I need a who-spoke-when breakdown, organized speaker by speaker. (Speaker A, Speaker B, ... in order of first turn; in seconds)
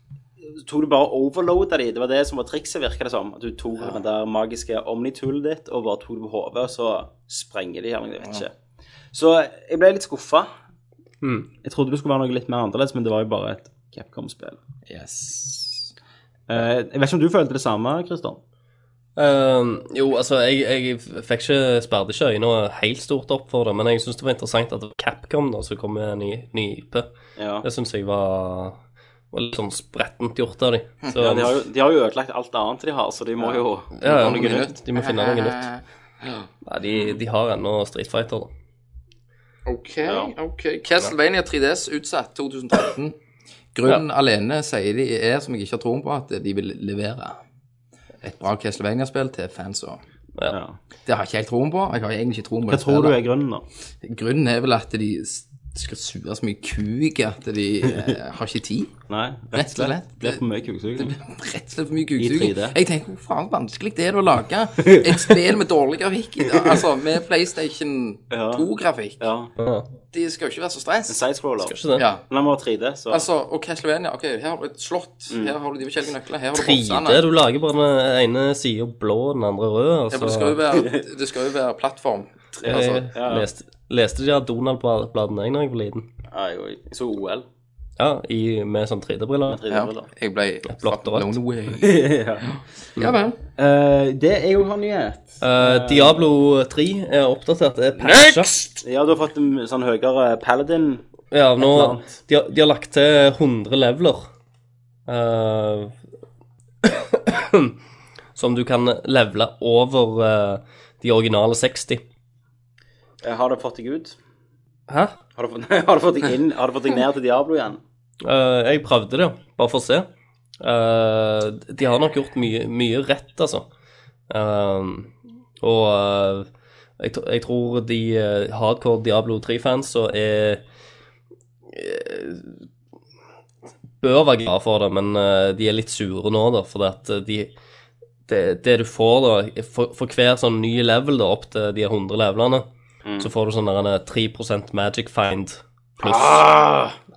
Speaker A: 0.5-8.5, 9.1-10.5, 11.6-14.6, 16.5-18.4, 27.4-27.7, 31.2-34.7, 40.1-40.3, 50.5-50.8, 52.7-53.6, 59.1-61.1, 62.2-62.8, 64.8-65.3, 68.3-68.7, 69.2-69.5, 71.1-71.7, 72.3-73.3, 82.7-83.5, 86.3-87.5, 89.5-90.1, 91.8-92.5, 93.6-96.2, 98.8-101.0, 101.6-102.1, 113.2-114.2, 115.4-117.8, 143.1-143.3, 146.0-146.9
Speaker B: 11.2-11.5, 19.2-27.1, 27.6-28.8, 29.3-31.6, 34.0-35.7, 36.7-38.5, 69.6-69.9, 71.6-72.1, 76.5-80.6, 82.7-86.1, 88.0-89.6, 90.7-91.3, 95.4-98.6, 101.3-104.3, 105.1-105.9, 106.8-107.8, 108.4-112.0, 114.9-115.1, 118.2-120.1, 120.6-123.7, 124.3-126.5, 127.0-130.6, 131.7-132.7, 134.0-137.5, 138.3-142.7, 143.2-146.4
Speaker C: 14.9-15.9, 33.4-36.5, 39.7-43.2, 43.7-47.4, 48.2-50.0, 51.1-53.2, 54.0-58.9, 59.5-60.4, 61.0-69.3, 70.1-71.2, 72.0-72.2, 73.1-77.2, 80.1-83.1, 89.7-93.4, 98.0-98.5